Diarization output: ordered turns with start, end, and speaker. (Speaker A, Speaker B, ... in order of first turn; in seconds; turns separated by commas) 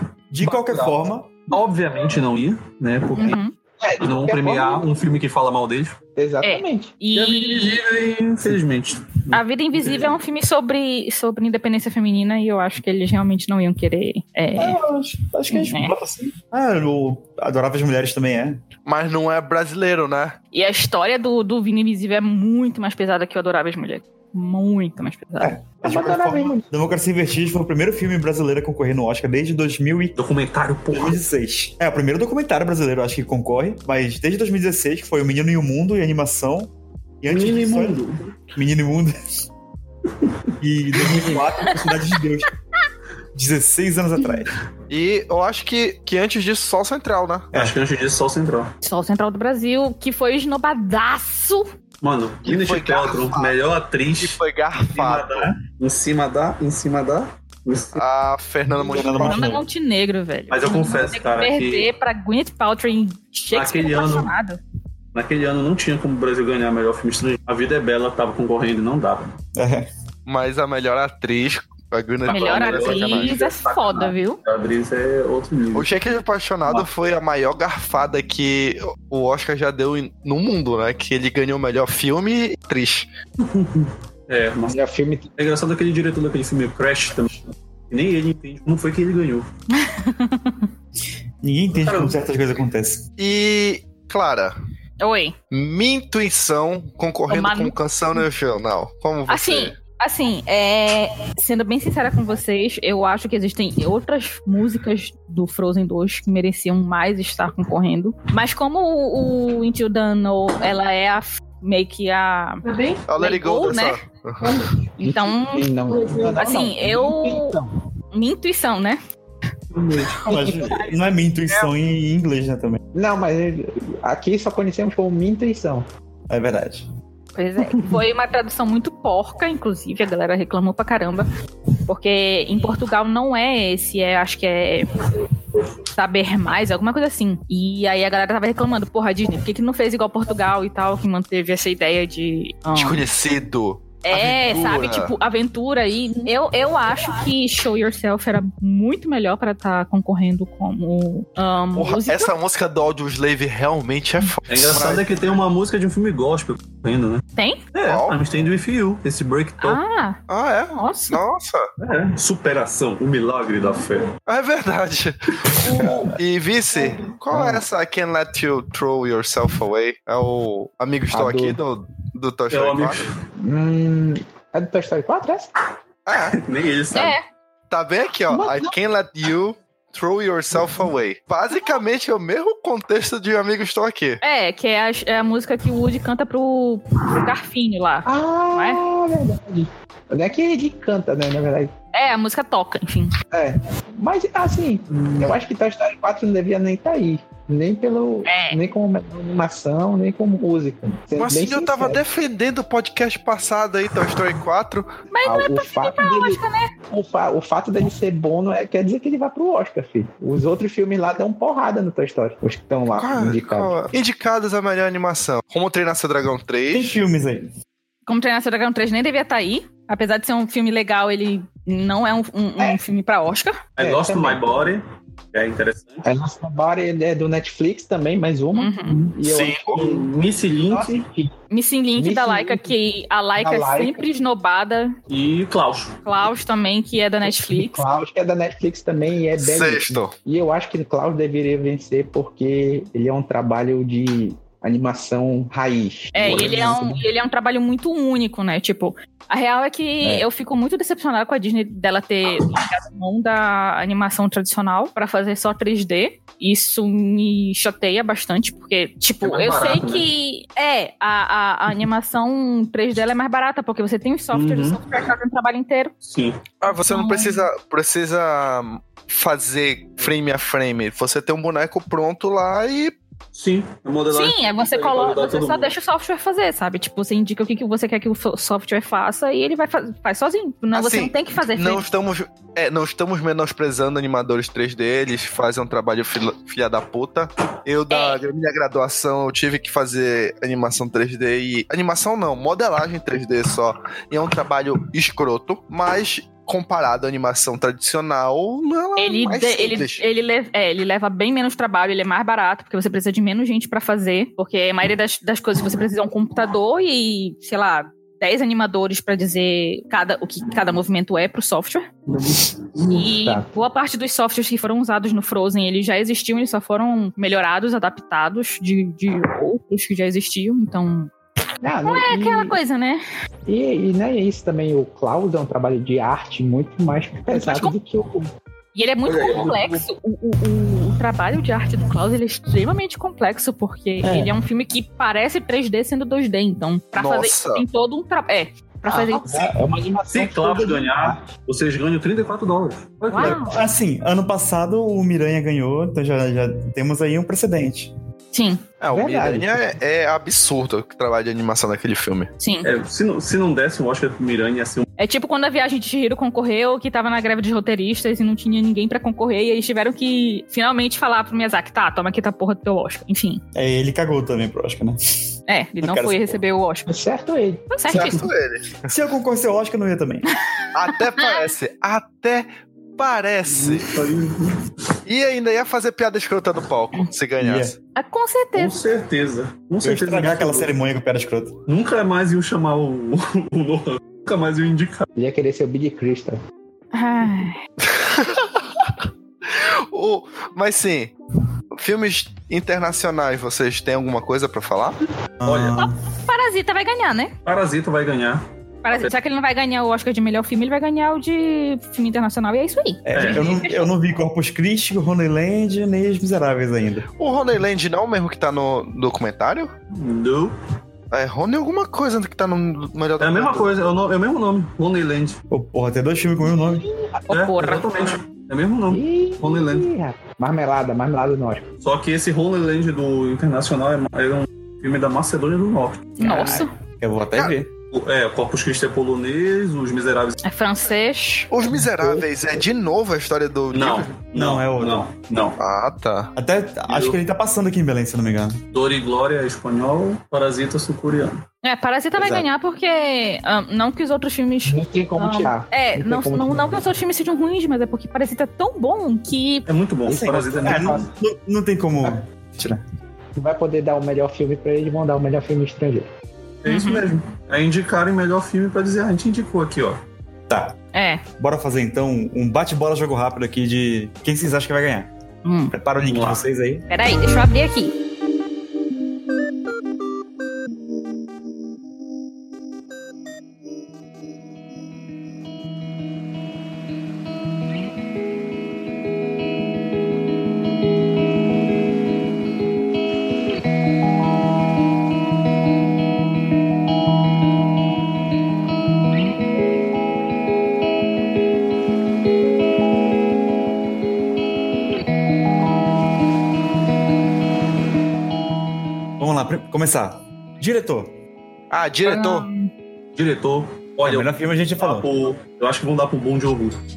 Speaker A: 0.3-1.3, Speaker B: 0.4-0.9, Speaker B: 1.5-3.4, Speaker C: 3.2-3.5, Speaker D: 3.8-4.9, Speaker B: 4.0-6.0, Speaker D: 6.2-6.9, Speaker C: 6.4-7.8, Speaker B: 7.1-10.2, Speaker C: 9.3-14.8, Speaker A: 14.6-18.6, Speaker C: 15.5-15.9, Speaker E: 18.9-20.4, Speaker C: 20.5-25.6, Speaker A: 25.4-30.1, Speaker D: 25.8-26.6, Speaker B: 30.1-31.2, Speaker A: 30.9-38.0, Speaker B: 37.3-38.3, Speaker A: 38.5-39.1, Speaker A: 40.6-42.5, Speaker A: 43.3-44.5, Speaker E: 44.9-47.5, Speaker B: 47.5-48.7, Speaker C: 48.8-51.7, Speaker B: 52.0-58.0, Speaker E: 52.4-53.6, Speaker E: 54.2-55.5, Speaker E: 57.9-59.5, Speaker A: 58.8-59.6, Speaker C: 59.1-64.6, Speaker B: 60.5-61.9, Speaker B: 63.5-64.3, Speaker B: 65.1-69.3, Speaker A: 69.5-69.9, Speaker E: 70.2-73.4, Speaker B: 72.3-76.1, Speaker C: 72.3-74.4, Speaker E: 75.7-83.1, Speaker B: 83.4-84.8, Speaker D: 84.7-85.3, Speaker B: 85.4-89.5, Speaker C: 89.7-90.7, Speaker A: 91.4-93.0, Speaker B: 91.8-92.2, Speaker E: 93.2-94.5, Speaker C: 95.0-95.3, Speaker E: 95.5-99.8, Speaker C: 97.3-97.8, Speaker C: 99.3-112.6, Speaker E: 113.1-114.6, Speaker C: 113.2-114.0, Speaker C: 115.0-115.7, Speaker D: 115.0-117.8, Speaker C: 116.3-117.5, Speaker C: 118.1-119.0, Speaker B: 119.7-120.6, Speaker A: 120.2-122.8, Speaker D: 120.3-120.6, Speaker D: 122.9-125.9, Speaker A: 126.3-126.9, Speaker C: 127.3-131.3, Speaker C: 131.8-135.0, Speaker C: 135.9-143.0, Speaker E: 142.7-145.1, Speaker C: 144.0-152.3, Speaker E: 151.7-155.2, Speaker B: 154.5-159.8, Speaker C: 157.3-157.6, Speaker E: 157.8-158.2, Speaker C: 159.6-160.2, Speaker E: 160.3-161.7, Speaker C: 160.7-161.2, Speaker B: 161.8-164.1, Speaker E: 164.3-173.1, Speaker D: 165.8-166.1, Speaker D: 167.3-167.6, Speaker D: 171.1-171.6, Speaker B: 172.5-173.1, Speaker D: 173.4-175.5, Speaker E: 176.1-176.4, Speaker B: 176.2-177.2, Speaker C: 176.9-177.2, Speaker E: 177.7-184.2, Speaker D: 178.3-178.7, Speaker C: 184.2-188.8, Speaker D: 188.0-191.7, Speaker C: 191.9-193.1, Speaker D: 193.3-202.0, Speaker B: 195.0-195.3, Speaker C: 198.2-198.6, Speaker E: 201.1-204.9, Speaker C: 205.1-206.7, Speaker D: 205.2-213.8, Speaker E: 213.0-217.0, Speaker A: 216.7-217.5, Speaker C: 218.1-223.7, Speaker B: 223.8-226.0, Speaker D: 223.8-224.7, Speaker D: 226.0-230.1, Speaker C: 228.5-229.1, Speaker E: 229.2-229.8, Speaker B: 229.7-231.1, Speaker D: 230.7-231.3, Speaker C: 231.5-234.9, Speaker D: 231.9-232.8, Speaker D: 233.4-234.1, Speaker B: 235.1-236.0, Speaker C: 236.0-237.8, Speaker D: 237.2-247.0, Speaker E: 239.4-240.1, Speaker C: 246.1-265.9, Speaker B: 259.2-260.1, Speaker B: 264.3-264.8, Speaker B: 266.0-266.4, Speaker E: 266.6-272.9, Speaker C: 266.7-267.4, Speaker B: 273.3-275.7, Speaker C: 274.1-281.8, Speaker E: 280.7-300.0, Speaker C: 287.9-288.2, Speaker C: 299.0-311.9, Speaker B: 312.1-312.9, Speaker D: 312.8-313.5, Speaker C: 312.9-321.1, Speaker D: 321.6-322.6, Speaker C: 321.8-323.0, Speaker D: 323.4-328.3, Speaker C: 327.3-327.7, Speaker C: 328.7-339.5, Speaker B: 329.0-329.6, Speaker D: 329.3-329.8, Speaker D: 334.0-334.3, Speaker E: 336.9-337.6, Speaker D: 338.9-341.3, Speaker B: 340.1-343.4, Speaker C: 343.1-343.6, Speaker A: 343.2-347.9, Speaker C: 348.3-348.7, Speaker E: 348.8-352.3, Speaker D: 348.9-349.8, Speaker C: 352.4-352.7, Speaker B: 352.6-354.9, Speaker C: 355.0-363.4, Speaker A: 363.5-366.3, Speaker C: 365.5-366.9, Speaker D: 366.9-368.1, Speaker C: 367.7-368.2, Speaker E: 367.9-368.8, Speaker A: 368.9-370.3, Speaker E: 370.7-373.9, Speaker B: 373.4-374.6, Speaker E: 375.1-377.8, Speaker A: 377.4-377.7, Speaker C: 377.9-378.8, Speaker B: 378.5-380.7, Speaker A: 379.8-381.6, Speaker B: 381.7-385.1, Speaker D: 385.1-386.4, Speaker C: 386.9-387.6, Speaker E: 387.8-388.6, Speaker E: 389.5-391.1, Speaker E: 391.7-395.0, Speaker A: 395.4-395.9, Speaker B: 395.4-395.9, Speaker C: 396.3-397.3, Speaker B: 397.4-399.1, Speaker C: 398.8-403.9, Speaker A: 403.0-407.1, Speaker B: 403.1-403.5, Speaker E: 407.2-409.7, Speaker B: 409.9-410.5, Speaker E: 411.1-413.7, Speaker B: 413.2-415.4, Speaker A: 415.5-416.9, Speaker D: 416.6-417.2, Speaker C: 417.3-417.9, Speaker B: 417.3-419.9, Speaker D: 418.9-421.7, Speaker B: 421.8-426.2, Speaker C: 426.2-426.7, Speaker A: 426.2-427.7, Speaker B: 427.9-430.4, Speaker C: 430.4-431.5, Speaker E: 431.5-434.1, Speaker D: 431.7-432.3, Speaker B: 433.7-435.6, Speaker A: 434.3-435.1, Speaker E: 435.6-436.3, Speaker A: 436.4-438.6, Speaker B: 436.9-437.2, Speaker B: 438.7-441.4, Speaker C: 441.6-449.7, Speaker A: 442.2-442.5, Speaker D: 444.6-446.9, Speaker B: 449.7-451.1, Speaker D: 450.1-451.1, Speaker A: 450.6-452.8, Speaker D: 453.4-456.1, Speaker B: 456.6-460.0, Speaker C: 456.6-457.1, Speaker A: 460.5-460.8, Speaker C: 460.9-461.2, Speaker A: 461.4-465.1, Speaker C: 465.4-465.7, Speaker A: 465.7-466.9, Speaker B: 466.1-466.4, Speaker C: 466.9-467.9, Speaker A: 499.2-501.1, Speaker E: 501.7-502.5, Speaker C: 502.1-502.7, Speaker B: 503.1-506.8, Speaker A: 504.0-505.1